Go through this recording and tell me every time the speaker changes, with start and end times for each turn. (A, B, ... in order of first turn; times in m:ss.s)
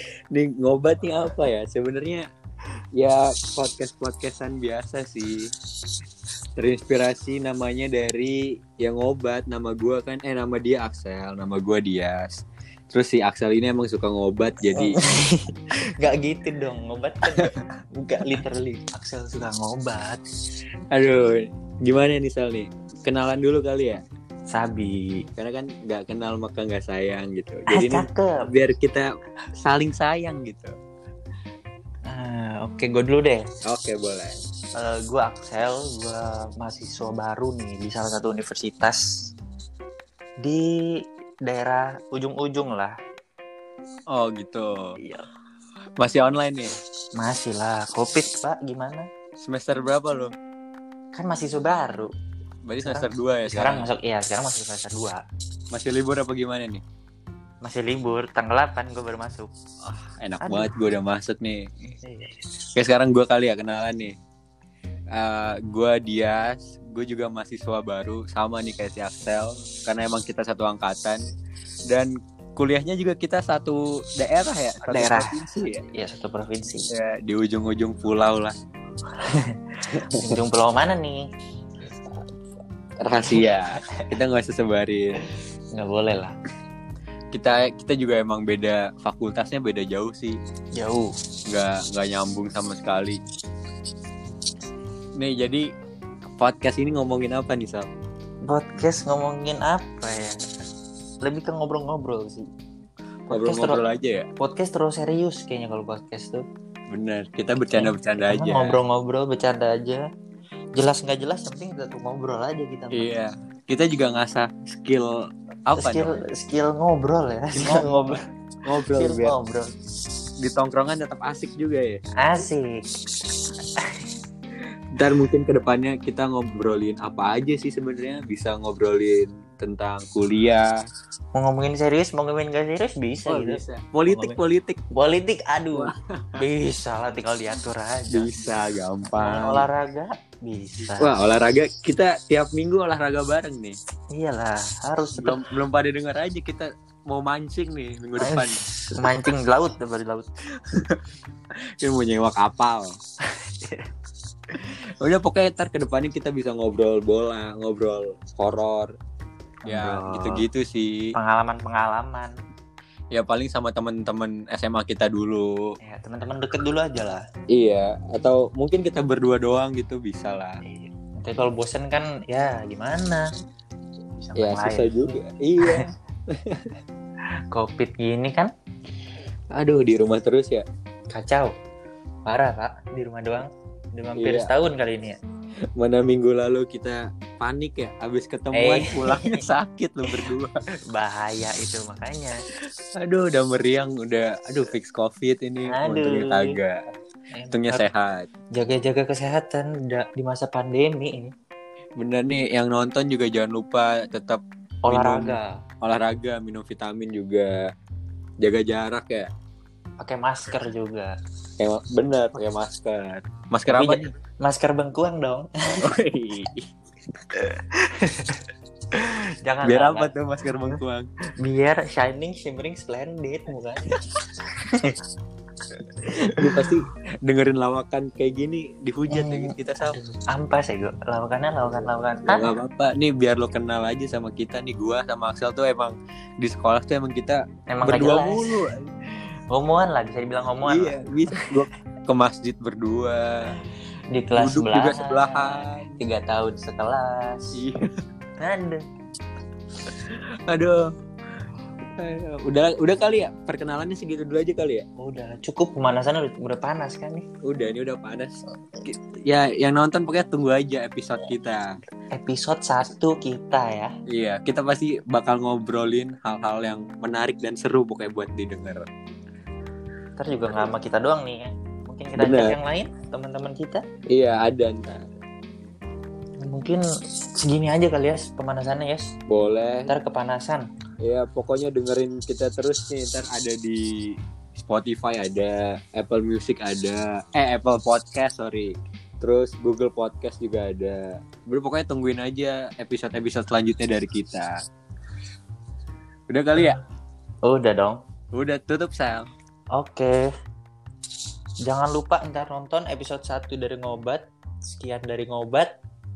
0:00.3-0:02.2 A
0:02.9-0:05.5 A
0:06.6-0:15.0 A
0:14.8-0:20.2 B
0:20.9-0:24.0 A
0:24.5-0:25.2 B
0:25.4-0:30.7 A
0:27.7-0:28.5 B
0:32.1-0:33.4 B
0:33.6-0:34.4 A
0:34.8-0:39.3 B
0:40.4-0:42.9 B
0:44.1-0:45.0 A
0:45.0-0:45.2 B
0:46.0-0:46.7 A
0:47.2-0:49.1 B
0:49.4-0:50.3 A
0:51.1-0:52.1 B
0:52.6-0:53.9 A
0:52.8-0:55.2 B
0:55.7-0:56.8 A
0:57.6-0:59.5 B
0:59.8-1:01.7 A
1:00.4-1:00.7 B
1:02.0-1:02.3 B
1:02.7-1:04.1 A
1:05.1-1:11.2 A
1:11.9-1:15.8 A
1:14.8-1:16.9 B
1:16.9-1:18.5 A
1:19.2-1:21.2 B
1:19.9-1:20.3 A
1:23.0-1:25.2 A
1:23.2-1:24.1 B
1:25.7-1:26.4 B
1:27.3-1:30.4 A
1:30.8-1:31.1 B
1:31.5-1:33.2 A
1:35.2-1:35.6 A
1:36.4-1:37.9 A
1:38.4-1:40.4 B
1:41.2-1:42.5 B
1:43.3-1:43.8 B
1:43.3-1:44.3 A
1:44.4-1:46.4 B
1:46.9-1:48.8 A
1:47.7-1:50.0 B
1:50.8-1:53.1 B
1:52.9-1:56.2 A
1:55.8-1:58.2 B
1:57.6-1:59.4 A
1:58.9-1:59.7 B
2:00.4-2:02.0 A
2:02.2-2:02.9 B
2:03.8-2:04.1 B
2:04.9-2:10.7 A
2:11.3-2:14.4 B
2:13.2-2:14.8 A
2:14.9-2:18.3 B
2:15.7-2:16.4 A
2:18.1-2:19.7 A
2:19.2-2:21.2 B
2:21.0-2:23.8 A
2:24.1-2:25.4 B
2:25.2-2:28.6 A
2:28.2-2:30.3 B
2:30.6-2:31.0 A
2:31.8-2:33.0 A
2:33.4-2:33.9 B
2:34.5-2:38.9 A
2:39.6-2:40.4 B
2:39.7-2:41.1 A
2:41.1-2:42.4 B
2:43.1-2:45.8 A
2:45.8-2:47.2 B
2:47.5-2:50.6 A
2:50.6-2:53.2 B
2:54.2-2:55.9 B
2:54.4-2:56.7 A
2:57.5-2:58.5 B
2:59.5-3:00.6 A
3:01.1-3:01.5 B
3:02.2-3:05.2 B
3:04.2-3:04.5 A
3:05.8-3:10.5 A
3:08.5-3:09.4 B
3:10.9-3:12.4 B
3:13.0-3:16.8 A
3:15.7-3:16.6 B
3:17.3-3:17.8 B
3:17.5-3:18.3 A
3:18.5-3:21.3 B
3:22.0-3:27.7 A
3:24.8-3:25.6 B
3:28.4-3:29.3 A
3:30.0-3:31.1 B
3:31.6-3:34.0 A
3:33.7-3:35.8 B
3:35.8-3:36.6 A
3:37.3-3:40.8 B
3:39.6-3:41.1 A
3:41.4-3:44.0 B
3:44.6-3:45.0 B
3:45.9-3:46.5 B
3:46.3-3:50.0 A
3:49.1-3:52.5 B
3:52.3-3:58.8 A
3:57.7-3:58.6 B
3:59.5-4:01.5 B
4:00.6-4:03.5 A
4:04.1-4:07.5 B
4:04.4-4:05.9 A
4:07.5-4:07.8 A
4:08.4-4:08.8 B
4:09.8-4:10.9 A
4:12.0-4:14.8 A
4:15.0-4:17.2 B
4:17.4-4:21.8 A
4:22.1-4:23.9 B
4:24.1-4:28.8 A
4:30.2-4:33.8 B
4:32.2-4:32.6 A
4:34.1-4:35.1 A
4:36.4-4:36.8 B
4:37.3-4:39.1 B
4:39.3-4:39.9 A
4:39.9-4:40.7 B
4:41.0-4:54.6 A
4:56.3-4:56.8 A
4:57.4-4:58.0 B
4:58.3-4:59.3 A
4:59.7-5:00.3 B
5:01.6-5:05.7 B